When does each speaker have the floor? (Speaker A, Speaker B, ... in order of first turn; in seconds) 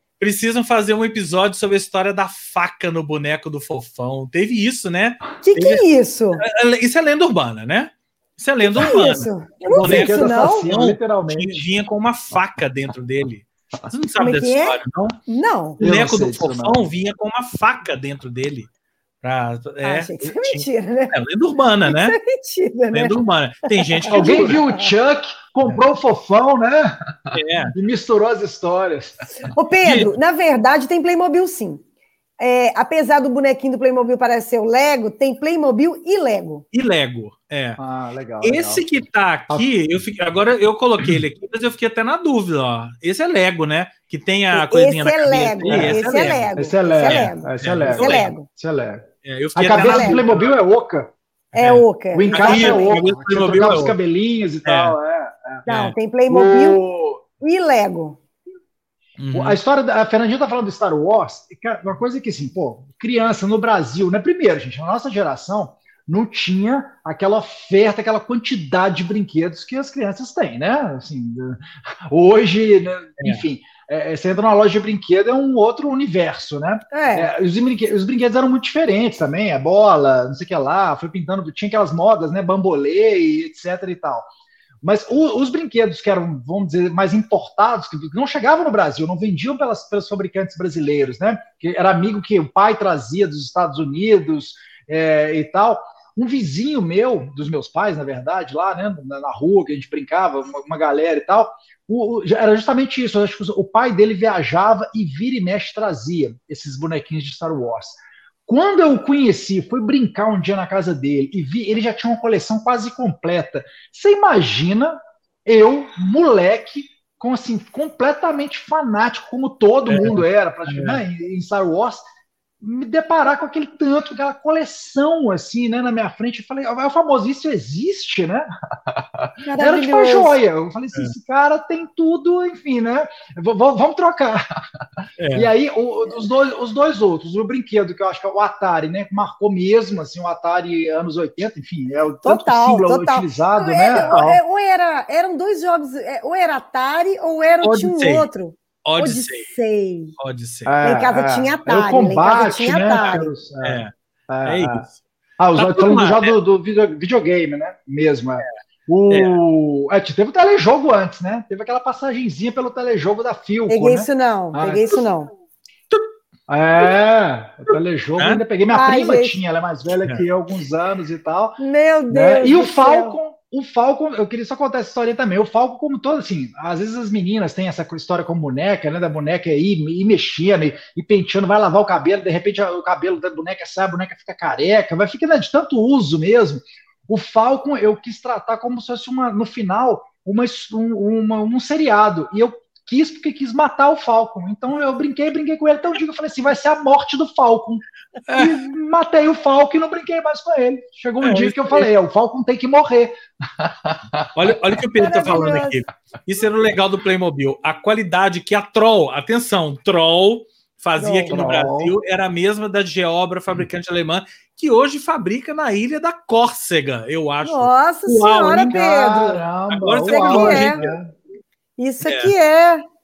Speaker A: 0.2-5.8, 6.4-15.2, 15.8-18.7, 19.2-22.2, 22.9-24.6, 27.3-27.7, 29.8-30.1, 36.7-37.8, 38.4-48.3, 49.2-50.5, 51.6-54.0, 54.6-55.0, 55.7-55.9, 59.2-59.6, 119.9-121.0, 135.2-135.5, 143.9-144.3, 147.6-148.3, 148.8-149.5, 150.2-150.7, 153.0-153.9, 154.4-155.0, 155.5-156.3, 159.1-159.4, 198.3-198.6, 201.2-201.9, 204.3-219.1, 219.7-220.9, 222.0-222.3
Speaker B: 5.4-6.4, 8.6-10.7, 14.2-15.8, 19.8-21.1, 21.8-23.1, 23.7-24.9, 29.4-31.8, 32.4-36.6, 44.5-48.5, 49.7-50.2, 51.5-53.0, 55.6-56.8, 57.4-58.2, 76.9-77.3, 129.4-130.4, 142.2-150.1, 150.8-153.3, 163.7-165.3, 168.7-169.4, 171.6-173.2, 205.0-205.8, 211.0-211.7, 217.4-219.4, 220.1-220.8, 221.8-222.8
Speaker C: 9.7-11.7, 15.8-16.8, 24.1-26.9, 27.7-29.2, 37.8-38.8, 45.6-46.0, 46.5-51.1, 52.1-55.6, 56.3-57.2, 59.3-84.3, 84.8-122.0, 122.6-128.5, 129.6-134.4, 135.3-144.4, 150.7-154.8, 155.4-165.1, 166.5-171.6, 172.1-204.3, 211.3-211.9, 218.8-221.1